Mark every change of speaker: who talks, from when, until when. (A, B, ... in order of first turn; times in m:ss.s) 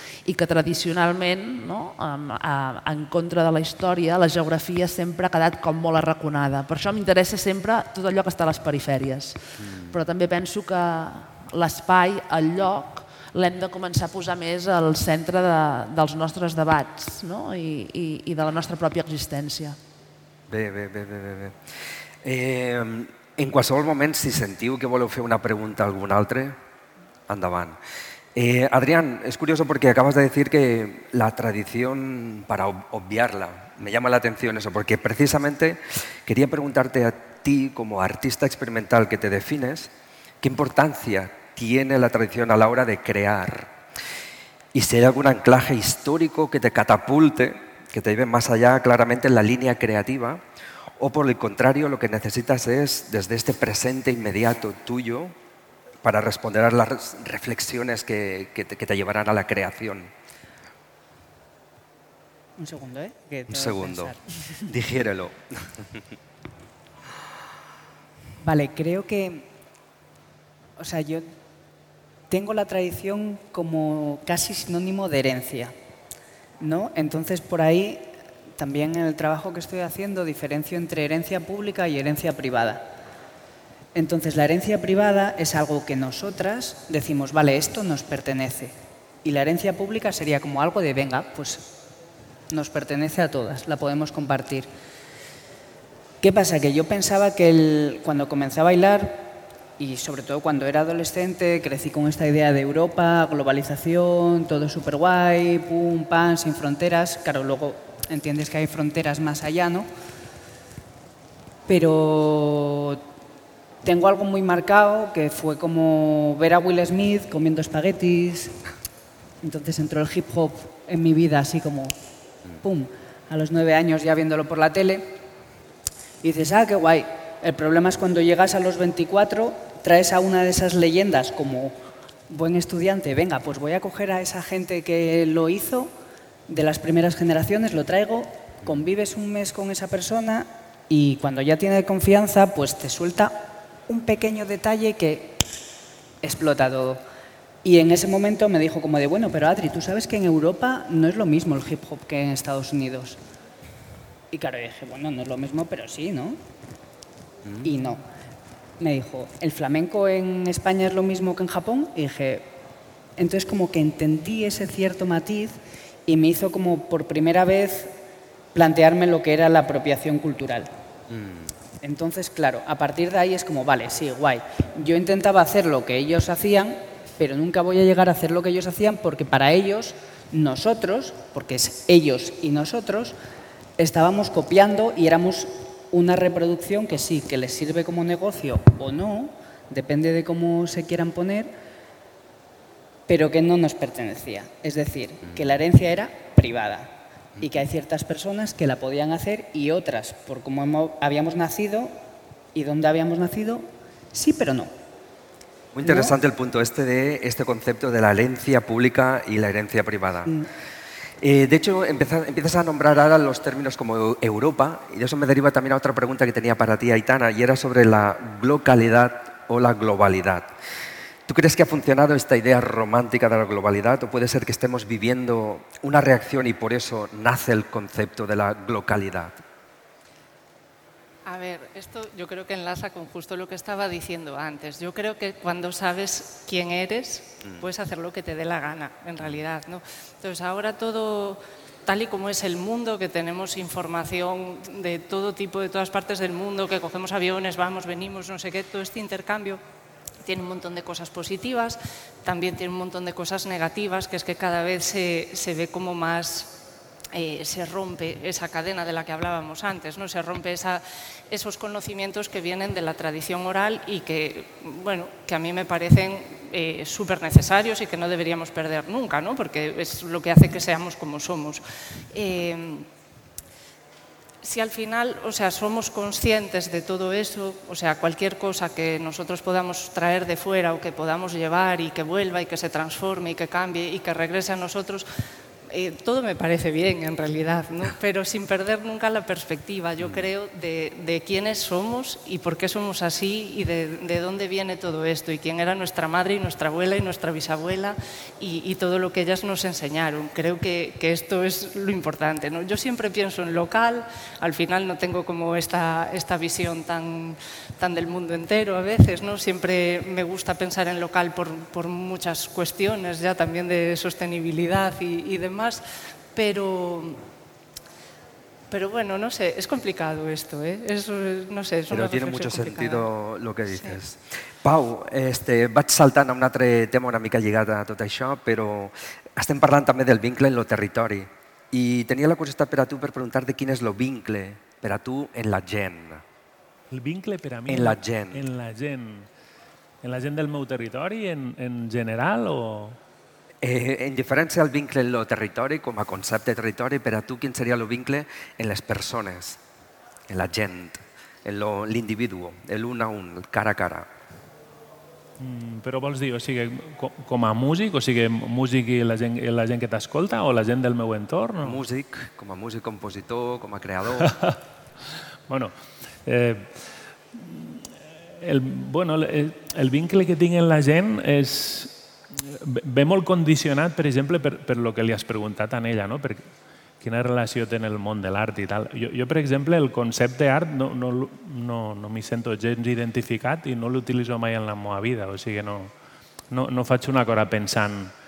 0:00.2-0:09.4 A
0:09.6-0:10.0 B
0:09.9-0:19.8 A
0:20.5-0:21.6 B
0:22.2-0:26.6 B
0:27.3-0:27.8 B
0:28.3-0:39.9 B
0:40.4-0:43.7 B
0:44.7-0:50.4 B
0:51.0-0:55.3 B
0:56.0-1:00.1 B
1:02.6-1:04.2 C
1:03.5-1:06.0 B
1:08.4-1:09.5 C
1:10.8-1:11.3 C
1:12.3-1:15.7 C
1:16.6-1:22.9 C
1:23.9-1:31.7 C
1:32.5-1:34.7 C
1:36.2-1:49.9 C
1:51.7-1:53.0 C
1:53.8-1:58.6 C
1:59.4-2:01.9 C
2:02.6-2:05.2 C
2:06.2-2:15.9 C
2:16.5-2:25.4 C
2:26.2-2:27.0 C
2:27.6-2:33.2 C
2:34.3-2:36.4 C
2:37.4-2:37.7 B
2:37.6-2:38.0 C
2:38.8-2:42.5 C
2:43.2-2:47.9 C
2:48.5-2:50.7 C
2:51.1-2:51.5 B
2:51.8-3:03.2 C
3:03.8-3:11.5 C
3:13.1-3:22.0 C
3:15.3-3:15.6 B
3:22.5-3:24.7 C
3:25.7-3:30.3 B
3:25.8-3:26.1 C
3:31.2-3:40.5 B
3:41.3-3:49.4 B
3:51.2-4:09.6 D
4:10.2-4:16.6 D
4:17.1-4:31.6 D
4:32.1-4:32.9 D
4:34.4-4:45.0 D
4:45.7-5:15.8 D
4:50.0-4:50.3 B
5:16.3-5:17.2 D
5:18.7-5:23.1 D
5:21.9-5:36.2 B
5:23.7-5:24.0 D
5:36.9-5:39.3 E
5:37.7-5:38.4 B
5:40.0-5:43.0 E
5:43.6-5:49.6 B
5:50.3-5:54.1 B
5:55.4-6:01.8 E
6:01.6-6:04.3 B
6:04.2-6:04.6 E
6:05.5-6:05.7 E
6:06.2-6:06.7 E
6:07.3-6:16.4 E
6:17.0-6:25.9 E
6:26.5-6:28.1 E